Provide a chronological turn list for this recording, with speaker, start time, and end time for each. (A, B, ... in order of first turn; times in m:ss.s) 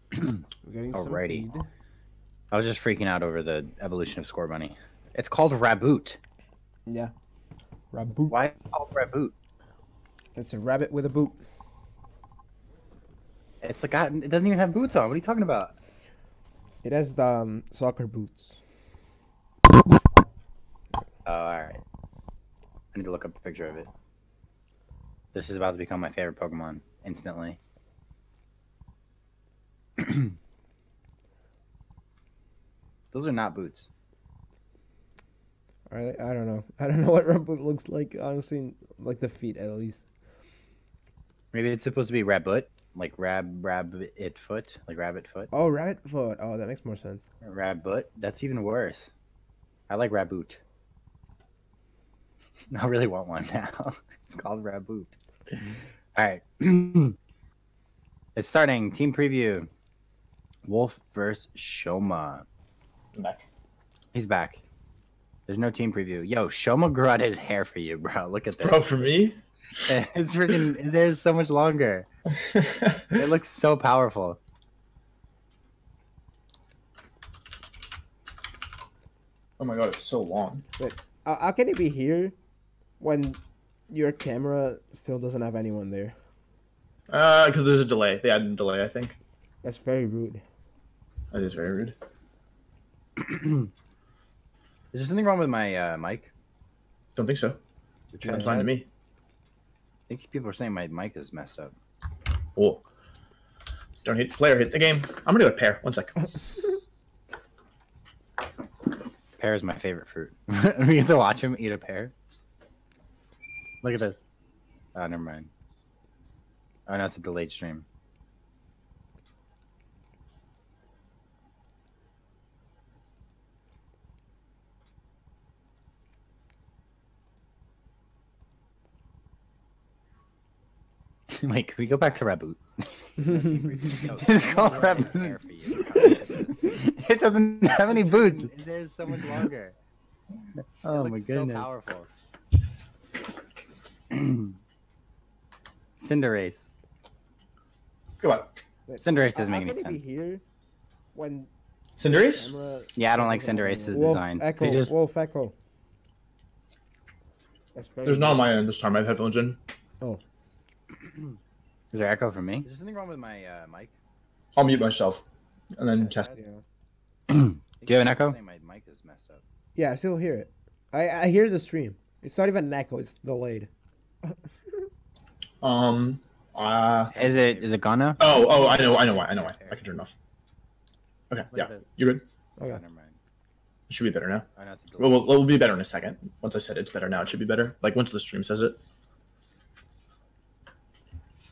0:00.6-0:01.6 A
0:00.9-0:01.4 B
0:02.5-0:06.2 B
0:06.9-0:07.1 A
0:07.9-0:08.4 A
0:08.3-0:09.3 B
0:10.3-0:11.4 A
0:13.6-0:15.7 B
0:16.8-0:18.6 A
0:21.2-0:21.8 B
0:22.9-0:23.9 B
0:25.3-0:27.6 B
0:30.0-0:30.3 B
0:33.1-0:33.9 B
0:35.9-0:40.1 A
0:41.5-0:45.5 B
0:45.5-0:47.2 A
0:47.4-0:49.1 B
0:49.9-0:50.6 B
0:52.7-0:55.2 B
0:56.1-0:57.2 B
0:58.3-0:59.7 B
1:00.6-1:02.4 B
1:03.1-1:03.4 C
1:04.1-1:04.6 B
1:05.5-1:08.8 B
1:08.6-1:09.4 C
1:09.9-1:12.1 B
1:12.5-1:13.1 C
1:13.1-1:14.4 B
1:19.6-1:20.6 C
1:20.8-1:22.3 A
1:23.0-1:23.4 A
1:23.9-1:26.1 A
1:27.1-1:29.2 C
1:29.6-1:30.4 A
1:31.3-1:32.0 C
1:33.2-1:33.7 B
1:34.9-1:36.3 B
1:37.2-1:37.6 C
1:38.1-1:38.7 B
1:38.2-1:38.7 A
1:38.2-1:38.8 C
1:40.1-1:41.7 B
1:42.6-1:42.8 C
1:44.0-1:46.3 C
1:49.4-1:52.1 B
1:53.8-1:54.2 B
1:54.9-1:55.5 B
1:56.9-1:57.8 B
2:11.3-2:19.7 B
2:13.2-2:16.8 A
2:17.9-2:18.4 A
2:20.8-2:22.1 B
2:24.1-2:24.5 B
2:26.0-2:26.7 B
2:28.2-2:28.5 C
2:28.9-2:30.4 A
2:29.0-2:30.0 B
2:31.1-2:31.5 A
2:32.0-2:32.5 C
2:32.0-2:35.5 A
2:33.0-2:34.9 B
2:37.7-2:38.4 A
2:38.0-2:39.6 C
2:41.9-2:43.9 B
2:44.6-2:45.2 C
2:45.8-2:46.3 C
2:46.3-2:46.6 A
2:47.3-2:49.4 B
2:49.8-2:53.7 A
2:55.6-2:57.2 C
2:57.1-2:59.8 B
2:58.2-3:00.2 C
3:01.3-3:02.2 C
3:01.5-3:01.9 B
3:02.6-3:03.2 B
3:03.9-3:04.5 C
3:04.6-3:05.3 B
3:05.0-3:08.8 C